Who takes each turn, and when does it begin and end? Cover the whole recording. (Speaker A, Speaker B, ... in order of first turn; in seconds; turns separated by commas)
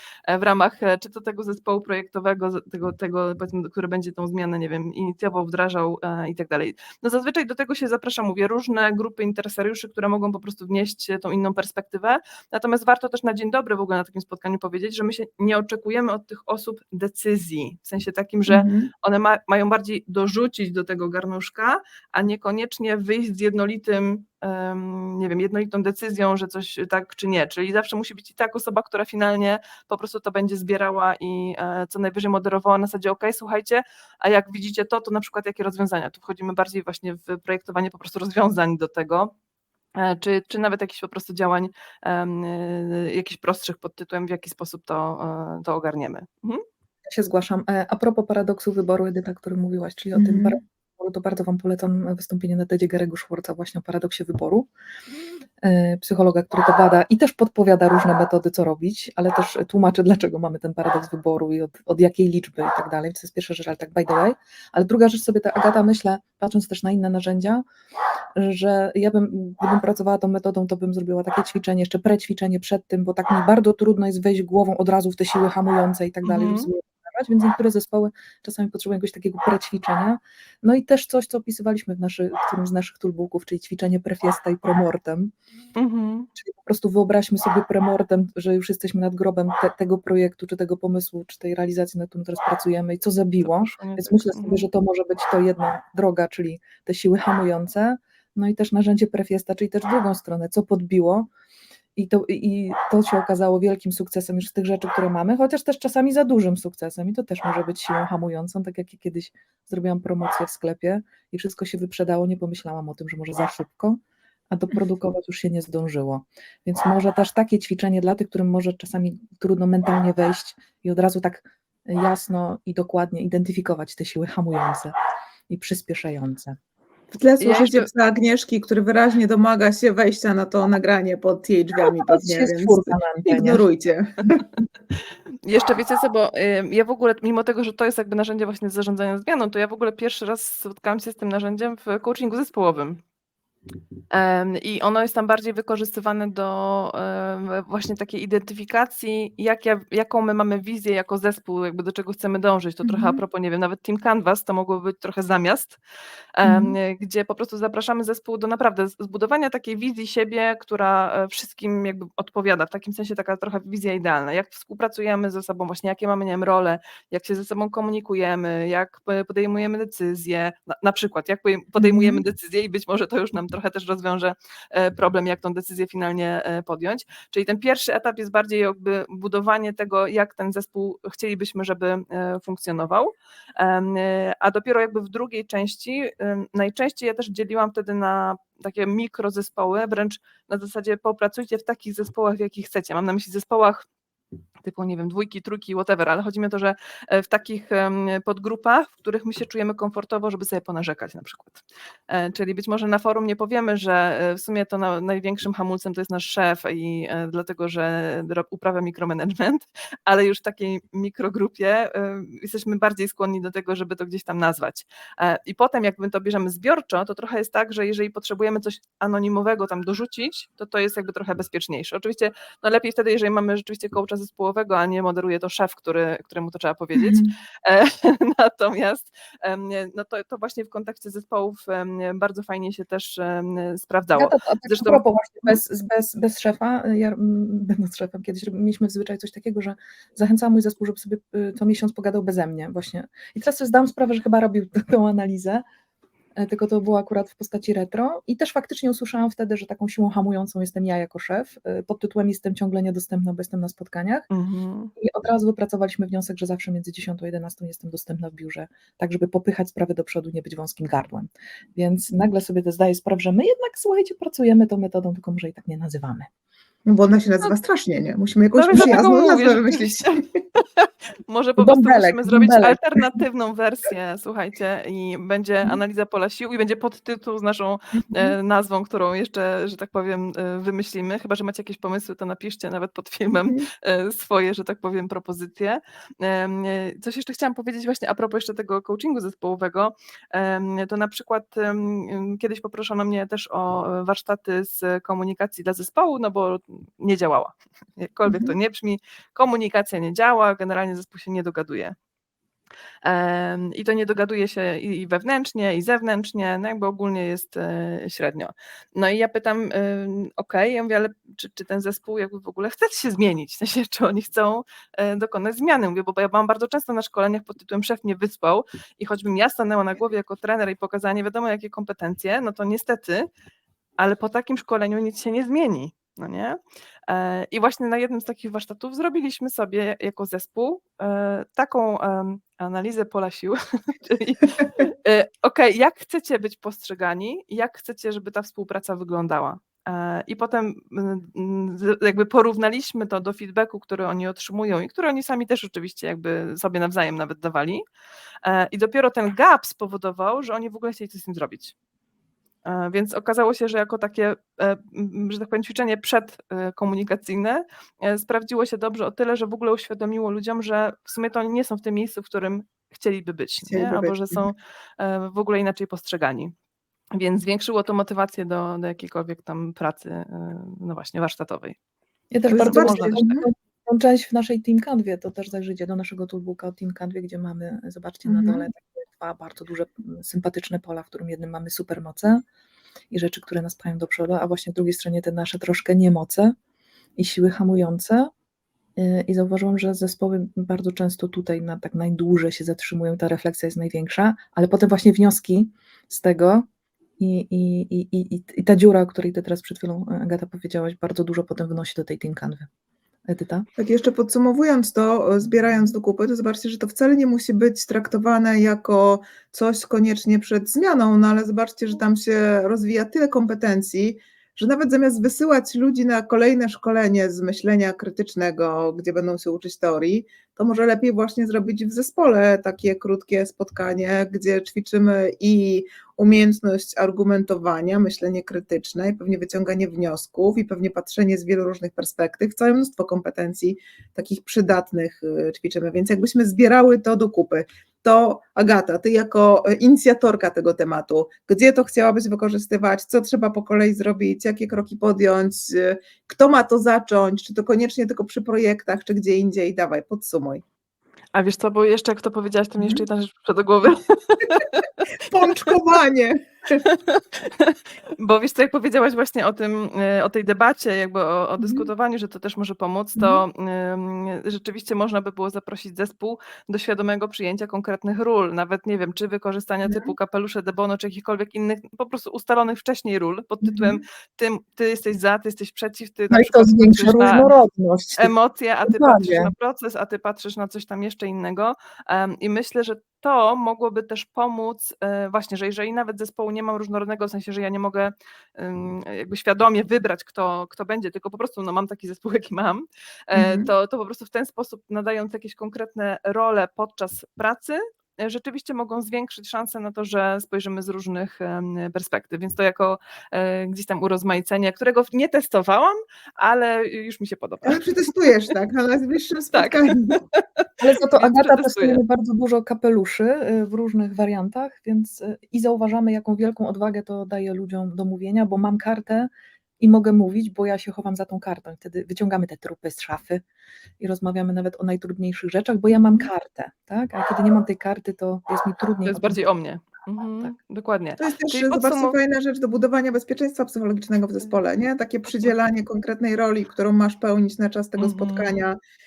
Speaker A: 0.3-39.3, Speaker B: 18.5-18.9, Speaker A: 40.0-46.6, Speaker C: 47.1-54.7, Speaker B: 50.1-50.6, Speaker C: 55.6-67.6, Speaker C: 68.4-85.3, Speaker A: 76.2-76.7, Speaker A: 85.8-86.3, Speaker C: 86.4-101.3, Speaker A: 93.4-94.7, Speaker C: 102.0-114.0, Speaker C: 114.5-124.9, Speaker C: 125.5-126.6, Speaker B: 127.1-134.5, Speaker A: 127.4-127.9, Speaker C: 131.8-133.6, Speaker A: 135.5-143.0, Speaker A: 144.1-155.8, Speaker B: 152.8-153.2, Speaker A: 156.4-193.8, Speaker B: 156.4-156.8, Speaker B: 171.8-172.2, Speaker A: 194.6-235.0, Speaker C: 234.2-245.6, Speaker C: 246.4-254.3, Speaker A: 254.3-254.9, Speaker C: 255.0-266.3, Speaker B: 266.9-270.0, Speaker A: 268.5-301.9, Speaker C: 271.6-272.8, Speaker B: 298.3-298.5, Speaker A: 303.0-323.3, Speaker A: 324.0-326.6, Speaker A: 327.1-347.8, Speaker A: 348.4-351.7, Speaker A: 352.6-366.5, Speaker B: 363.7-364.5, Speaker A: 367.1-371.8, Speaker C: 372.3-382.4, Speaker A: 372.5-373.4, Speaker B: 372.5-373.4, Speaker B: 378.2-378.7, Speaker C: 383.1-386.5, Speaker C: 387.2-388.3, Speaker C: 389.0-396.6, Speaker C: 397.2-402.7, Speaker C: 403.3-403.7, Speaker B: 403.8-450.6, Speaker A: 451.3-454.8, Speaker B: 455.3-456.8, Speaker A: 456.8-477.5, Speaker B: 461.6-461.9, Speaker B: 463.2-463.4, Speaker B: 469.8-470.1, Speaker B: 473.6-474.0, Speaker C: 476.3-478.3, Speaker A: 478.2-507.8, Speaker C: 478.9-479.5, Speaker B: 493.3-493.7, Speaker B: 507.6-510.2, Speaker A: 509.5-512.0, Speaker C: 510.8-523.4, Speaker C: 524.0-529.4, Speaker B: 526.0-526.3, Speaker A: 529.0-532.2, Speaker B: 531.2-538.8, Speaker A: 538.0-538.5